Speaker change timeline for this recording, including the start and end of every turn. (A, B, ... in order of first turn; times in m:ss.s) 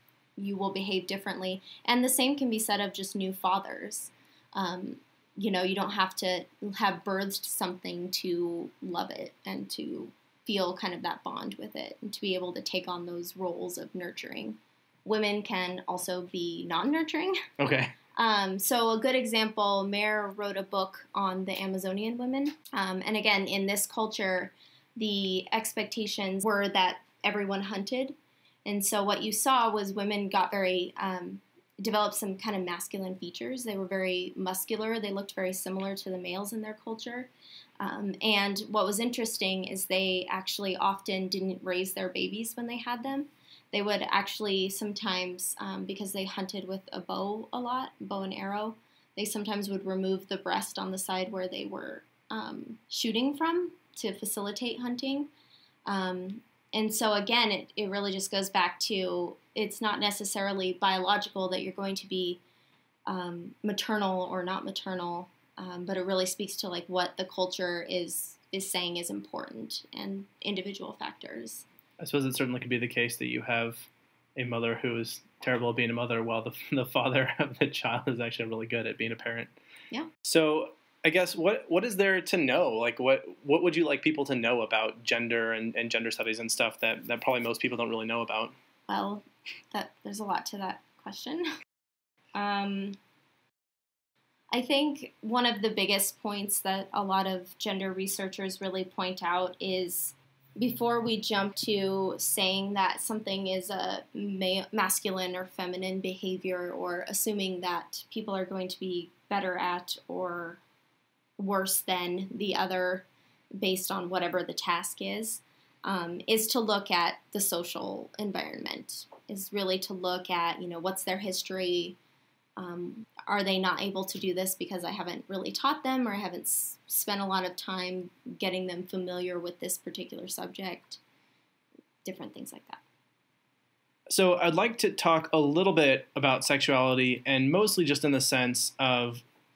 0:00.4-0:17.4 A
0:17.6-0:17.9 B
0:18.2-0:55.3 A
0:55.8-1:02.4 A
1:03.1-1:11.6 A
1:12.0-1:19.5 B
1:20.2-1:28.5 B
1:28.9-1:31.5 A
1:32.3-1:33.0 A
1:34.5-1:50.6 A
1:51.4-2:02.0 A
2:02.6-2:11.0 A
2:12.0-2:12.8 A
2:14.1-2:19.2 B